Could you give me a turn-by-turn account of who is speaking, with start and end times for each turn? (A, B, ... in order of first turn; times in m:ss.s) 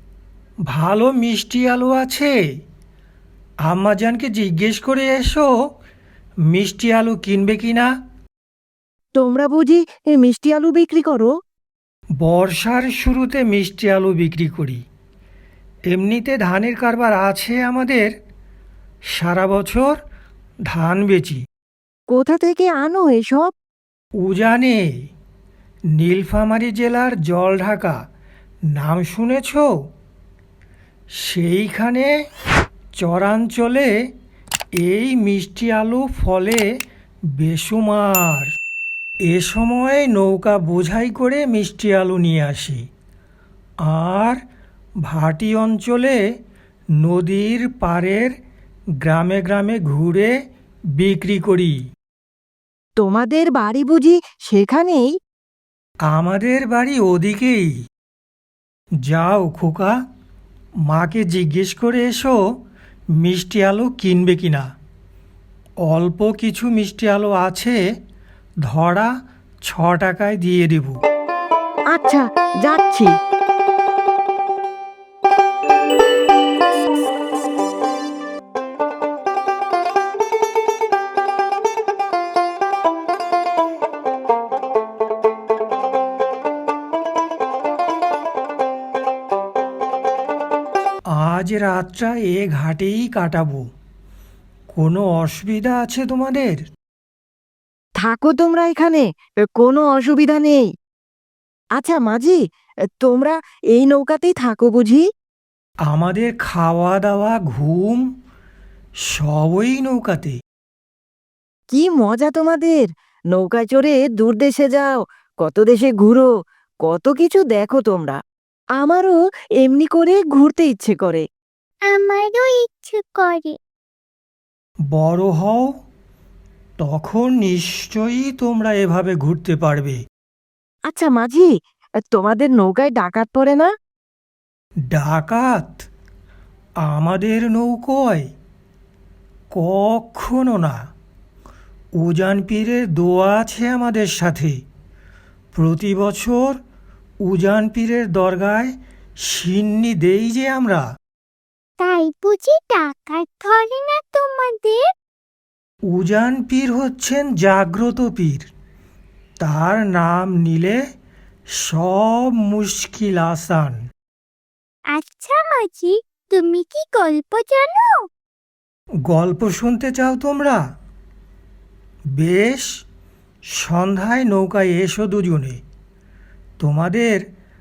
0:00.7-0:02.4 A
0:03.7-0:05.5 A
0:06.5-0:07.9 A
0:09.2-0:11.3 B
0:12.2-0:14.8 A
0:15.9-0:18.1 A
0:19.1-0:20.0 A
0:20.7-0:21.4 A
0:22.1-0:23.5 B
0:24.2-0:24.9 A
0:26.0-0:28.0 A
0:28.7-0:29.7 A
0:31.2-0:32.1 A
0:32.9-0:33.9 A
0:34.8-0:36.7 A
0:37.3-0:38.5 A
0:39.3-0:42.8 A
0:43.8-0:44.4 A
0:45.0-0:46.2 A
0:47.0-0:48.4 A
0:49.0-0:50.3 A
0:51.0-0:51.8 A
0:53.0-0:55.1 B
0:56.1-0:57.8 A
0:59.0-1:00.0 A
1:00.9-1:02.4 A
1:03.2-1:04.7 A
1:05.9-1:07.8 A
1:08.6-1:09.1 A
1:09.6-1:11.0 A
1:11.9-1:13.1 B
1:31.1-1:33.7 A
1:34.7-1:36.6 A
1:38.0-1:40.6 B
1:41.8-1:42.4 B
1:43.0-1:45.0 B
1:45.9-1:48.1 A
1:49.1-1:50.4 A
1:51.7-1:56.3 B
1:56.8-1:58.2 B
1:58.8-2:01.2 B
2:01.8-2:03.6 C
2:04.9-2:05.7 A
2:06.8-2:10.0 A
2:10.9-2:11.5 B
2:12.1-2:13.7 B
2:14.9-2:15.8 A
2:16.8-2:18.3 A
2:19.5-2:20.8 A
2:22.0-2:24.6 A
2:25.5-2:26.6 A
2:27.2-2:30.8 A
2:31.8-2:34.8 C
2:35.9-2:38.5 A
2:39.4-2:40.8 A
2:41.6-2:43.8 A
2:44.9-2:48.0 C
2:49.1-2:50.6 A
2:52.2-2:52.8 A
2:53.5-2:55.6 A
2:56.6-2:57.2 A